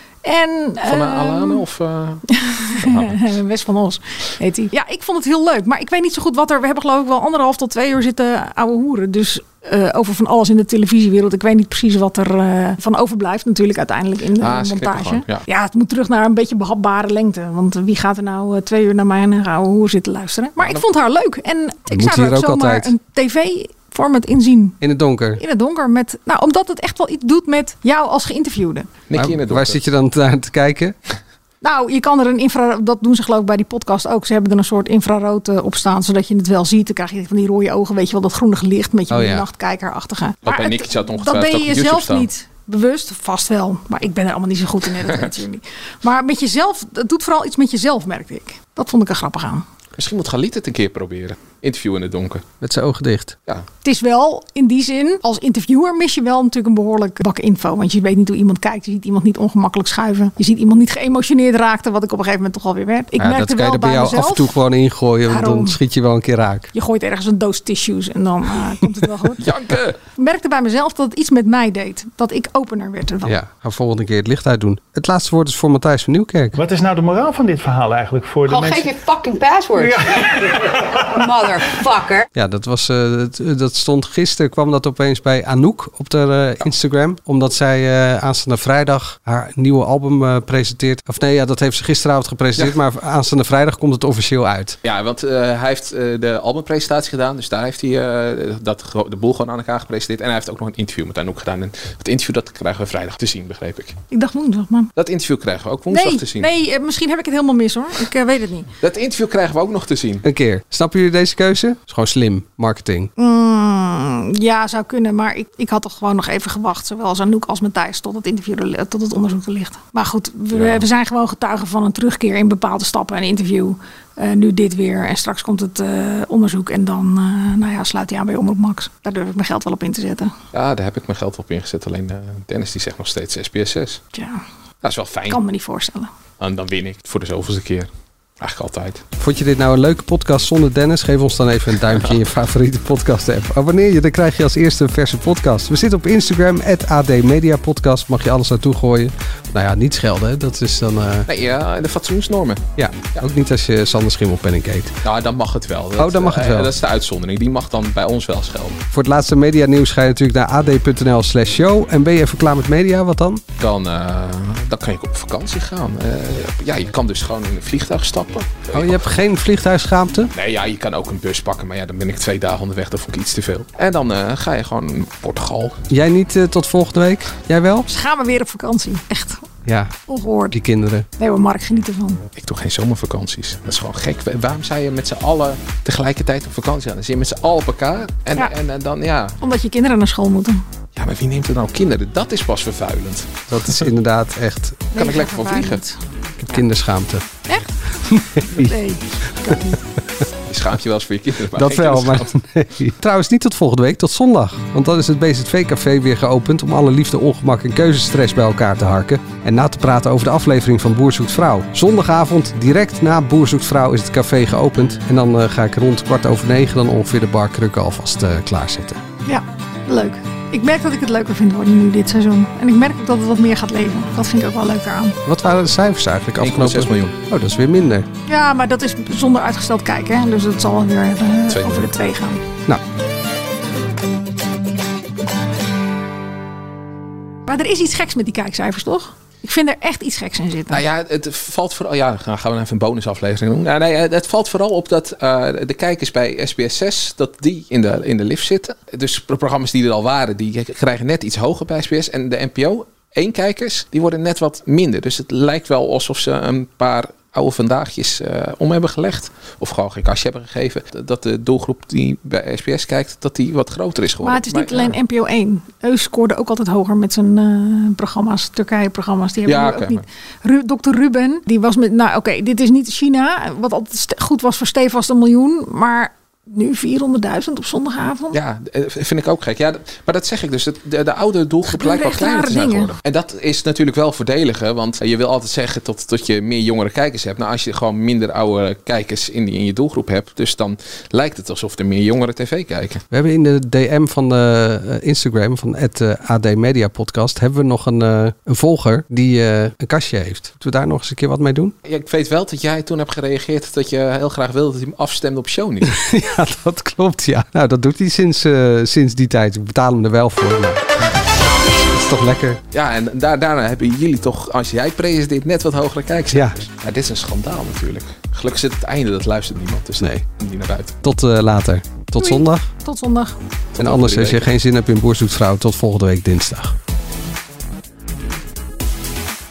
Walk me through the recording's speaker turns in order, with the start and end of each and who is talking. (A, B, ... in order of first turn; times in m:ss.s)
0:00.2-0:01.6 A
0:00.8-0:03.3 B
0:02.3-0:24.8 A
0:14.4-0:15.4 B
0:21.9-0:22.9 C
0:24.8-0:25.4 C
0:25.4-0:28.9 A
0:29.1-0:29.8 B
0:29.2-0:31.0 C
0:31.6-0:49.6 A
0:39.1-0:39.5 C
0:40.4-0:42.3 B
0:50.0-0:52.5 B
0:52.6-0:53.4 C
0:53.8-1:04.6 A
1:03.2-1:06.7 C
1:05.3-1:05.8 A
1:06.7-1:09.5 A
1:09.4-1:10.0 B
1:10.2-1:13.4 A
1:13.2-1:16.6 C
1:16.6-1:19.0 D
1:18.5-1:20.5 E
1:19.8-1:21.0 D
1:21.1-1:22.3 E
1:22.3-1:34.8 C
1:34.8-1:44.0 B
1:44.1-1:44.9 A
1:45.0-1:46.5 B
1:45.9-1:48.7 A
1:48.8-1:50.2 B
1:50.2-1:53.1 C
1:53.2-2:10.3 A
2:00.5-2:00.8 B
2:10.5-2:14.0 B
2:14.1-2:14.4 A
2:14.8-2:15.4 B
2:15.3-2:16.1 A
2:16.4-2:19.0 B
2:19.2-2:31.3 C
2:31.3-2:33.2 B
2:32.8-2:35.0 C
2:35.0-2:38.8 B
2:36.0-2:36.7 C
2:38.9-2:43.4 C
2:43.6-2:49.0 B
2:48.7-2:50.3 C
2:50.4-2:55.8 B
2:55.9-2:57.9 C
2:57.9-2:59.4 A
2:59.7-2:59.9 C
3:00.1-3:00.6 A
3:00.5-3:01.1 C
3:01.2-3:02.2 A
3:02.4-3:09.4 B
3:09.4-3:10.6 A
3:11.0-3:13.8 B
3:13.5-3:14.9 C
3:14.9-3:16.0 A
3:14.9-3:15.8 B
3:16.4-3:17.2 C
3:18.1-3:18.7 C
3:18.5-3:19.8 A
3:20.5-3:22.3 B
3:21.6-3:39.0 C
3:39.3-3:45.2 A
3:45.3-3:48.1 C
3:46.4-3:47.2 B
3:48.3-3:52.4 A
3:51.5-3:51.9 B
3:57.5-4:00.8 A
4:00.7-4:25.0 B
4:24.2-4:38.4 A
4:29.5-4:30.0 B
4:38.3-4:53.0 B
4:41.7-4:42.9 A
4:53.1-5:01.7 C
5:01.8-5:06.0 B
5:05.8-5:10.8 C
5:11.9-5:12.6 C
5:12.7-5:21.0 B
5:21.0-5:22.6 C
5:22.2-5:23.4 A
5:23.7-5:24.5 B
5:23.8-5:26.8 C